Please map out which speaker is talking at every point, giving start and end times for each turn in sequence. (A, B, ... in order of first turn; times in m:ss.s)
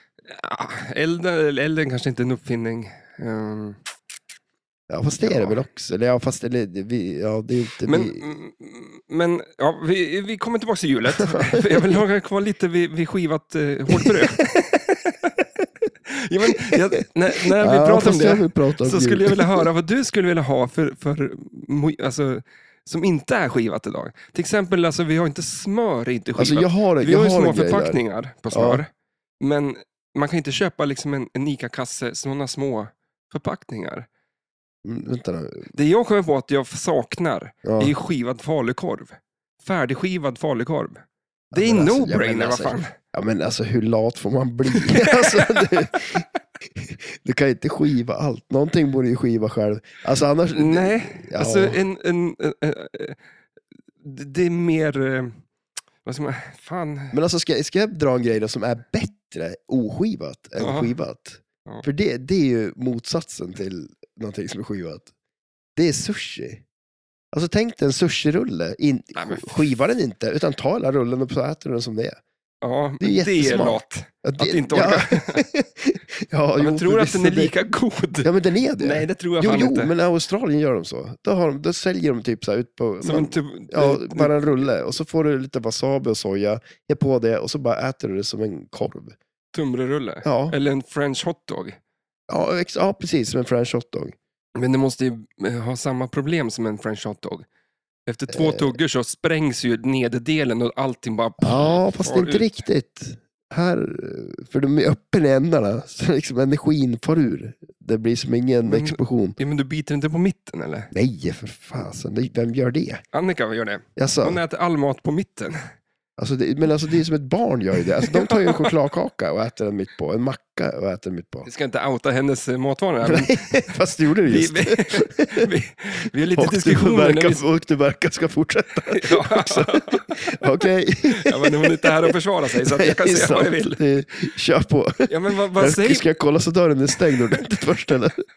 0:00.3-0:03.8 A
0:04.9-0:08.2 B
0:05.2-0:05.6 A
0:07.8-0:15.3 A
0:11.2-0:12.0 B
0:14.0-0:14.3 B
0:16.1-0:28.9 A
0:16.5-0:16.8 B
0:17.4-0:19.6 B
0:26.4-0:28.0 B
0:28.5-0:28.8 B
0:29.4-0:34.1 A
0:34.8-0:35.7 B
0:35.7-0:41.0 A
0:37.6-0:37.9 B
0:41.5-0:51.8 B
0:41.5-0:42.9 A
0:44.7-0:45.8 A
0:50.5-0:53.2 A
0:54.0-0:55.4 A
0:56.0-0:57.2 A
0:57.1-1:05.1 B
1:00.6-1:00.9 A
1:05.8-1:06.6 B
1:07.3-1:12.2 B
1:09.1-1:09.7 A
1:12.6-1:15.4 A
1:13.0-1:17.5 B
1:16.6-1:19.9 A
1:18.2-1:29.2 B
1:23.0-1:24.5 A
1:29.5-1:31.8 A
1:30.2-1:30.6 B
1:32.3-1:34.2 B
1:34.5-1:37.4 A
1:38.1-1:42.6 A
1:38.3-1:38.8 B
1:41.4-1:49.4 B
1:48.6-1:50.9 A
1:50.9-1:53.0 B
1:53.1-1:55.6 A
1:54.0-1:54.4 B
1:56.2-2:01.5 B
1:58.0-1:58.7 A
2:01.4-2:03.7 A
2:03.0-2:05.5 B
2:04.2-2:07.4 A
2:06.3-2:11.9 B
2:08.9-2:10.4 A
2:11.1-2:13.8 A
2:12.5-2:18.2 B
2:15.1-2:16.1 A